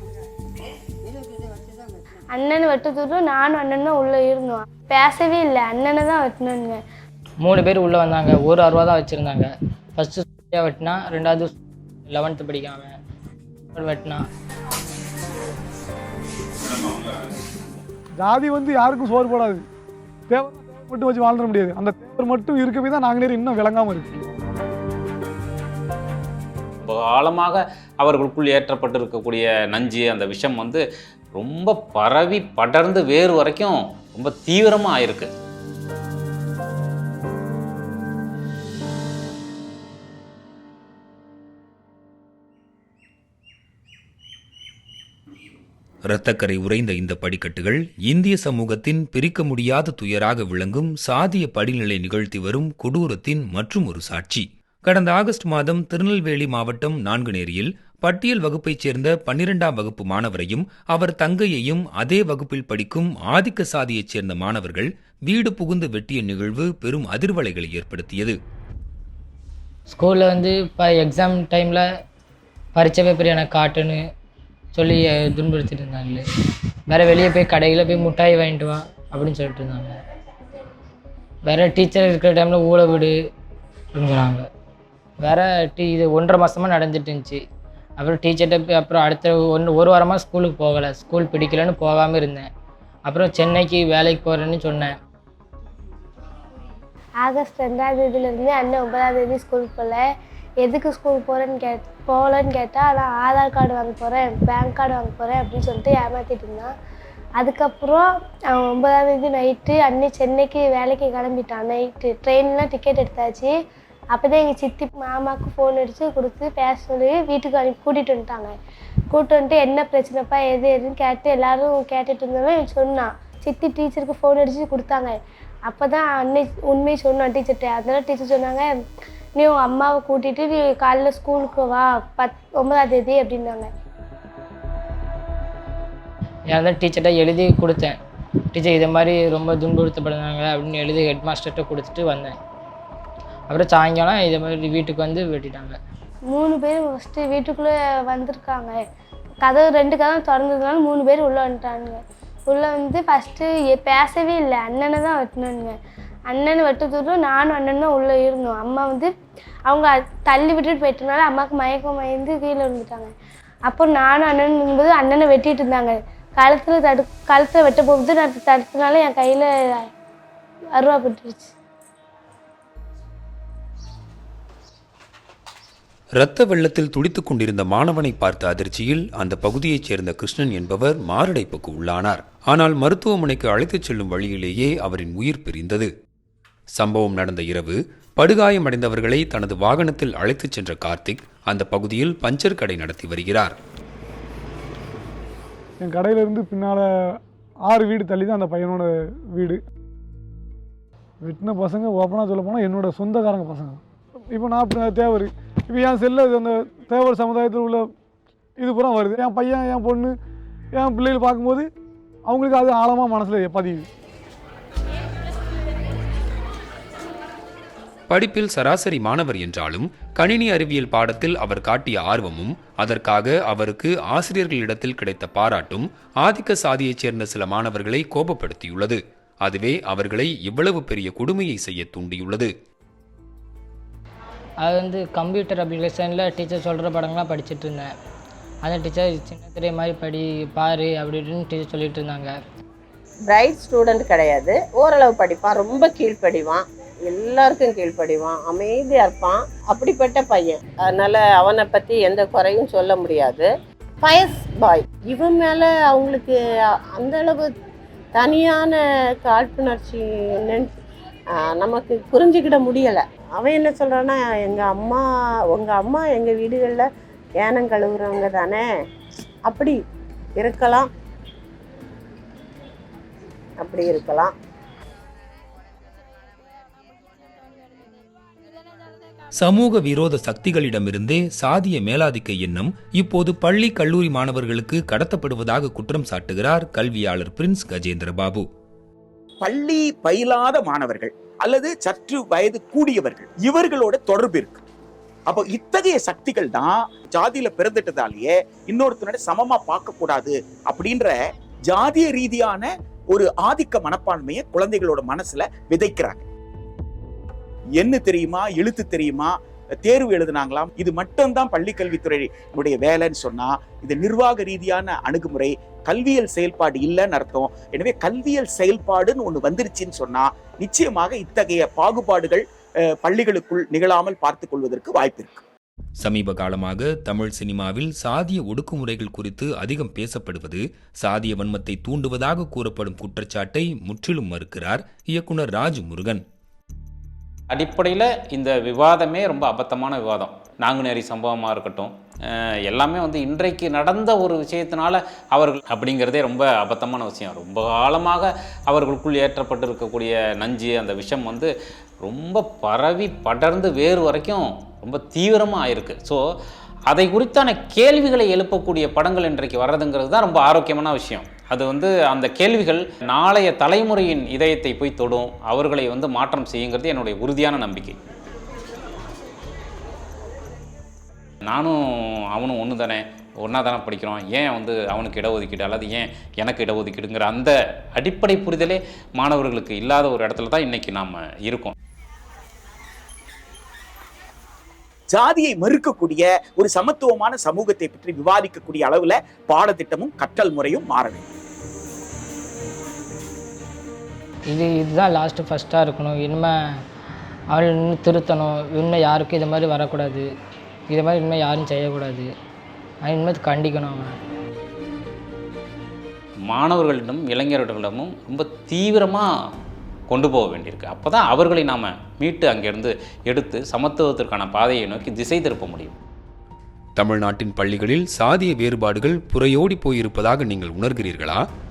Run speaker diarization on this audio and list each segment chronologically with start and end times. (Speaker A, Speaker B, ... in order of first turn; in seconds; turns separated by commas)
Speaker A: 2.3-6.8, Speaker B: 7.4-13.0, Speaker B: 13.7-14.2, Speaker C: 18.2-19.6, Speaker C: 20.3-24.2, Speaker D: 26.8-30.8, Speaker D: 31.4-35.3, Speaker E: 46.1-68.4, Speaker B: 69.9-71.8, Speaker B: 72.8-74.0, Speaker B: 74.8-76.2, Speaker B: 76.9-80.0, Speaker B: 81.5-83.2, Speaker B: 83.9-84.5, Speaker B: 85.2-87.4, Speaker B: 88.0-92.5, Speaker B: 93.1-95.0, Speaker A: 97.2-100.0, Speaker A: 100.6-106.7, Speaker A: 107.4-113.5, Speaker A: 114.1-118.5, Speaker A: 119.1-125.1, Speaker A: 125.7-128.7, Speaker A: 129.4-133.7, Speaker B: 136.5-138.0, Speaker B: 138.5-142.3, Speaker B: 143.5-145.8, Speaker A: 146.3-148.8, Speaker A: 149.5-155.8, Speaker A: 156.3-159.1, Speaker A: 159.7-163.1, Speaker A: 163.7-169.9, Speaker A: 170.8-171.5, Speaker E: 176.2-185.9, Speaker E: 186.8-193.6, Speaker C: 195.8-196.8, Speaker C: 197.7-199.6, Speaker C: 201.2-203.8, Speaker C: 204.3-207.9, Speaker C: 208.6-210.2, Speaker C: 210.7-211.7, Speaker C: 212.3-213.9, Speaker E: 218.1-232.5, Speaker B: 234.6-237.9, Speaker B: 238.6-242.3, Speaker F: 243.3-253.5, Speaker F: 254.0-256.4, Speaker F: 257.0-257.5, Speaker F: 258.2-260.7, Speaker F: 261.5-266.9, Speaker F: 267.4-268.6, Speaker F: 269.5-269.8, Speaker F: 270.4-270.9, Speaker F: 273.6-274.3, Speaker E: 279.4-288.5, Speaker G: 289.4-294.6, Speaker G: 295.3-301.2, Speaker G: 301.7-306.3, Speaker G: 307.8-322.4, Speaker G: 322.9-325.4, Speaker E: 326.0-336.2, Speaker D: 337.5-351.5, Speaker D: 352.0-356.2, Speaker D: 356.9-368.0, Speaker D: 371.5-371.8, Speaker D: 372.3-381.7, Speaker G: 385.1-391.3, Speaker B: 394.5-396.5, Speaker B: 397.5-400.3, Speaker B: 400.9-402.3, Speaker B: 403.0-404.1, Speaker D: 406.5-409.3, Speaker D: 410.1-416.0, Speaker E: 417.0-421.4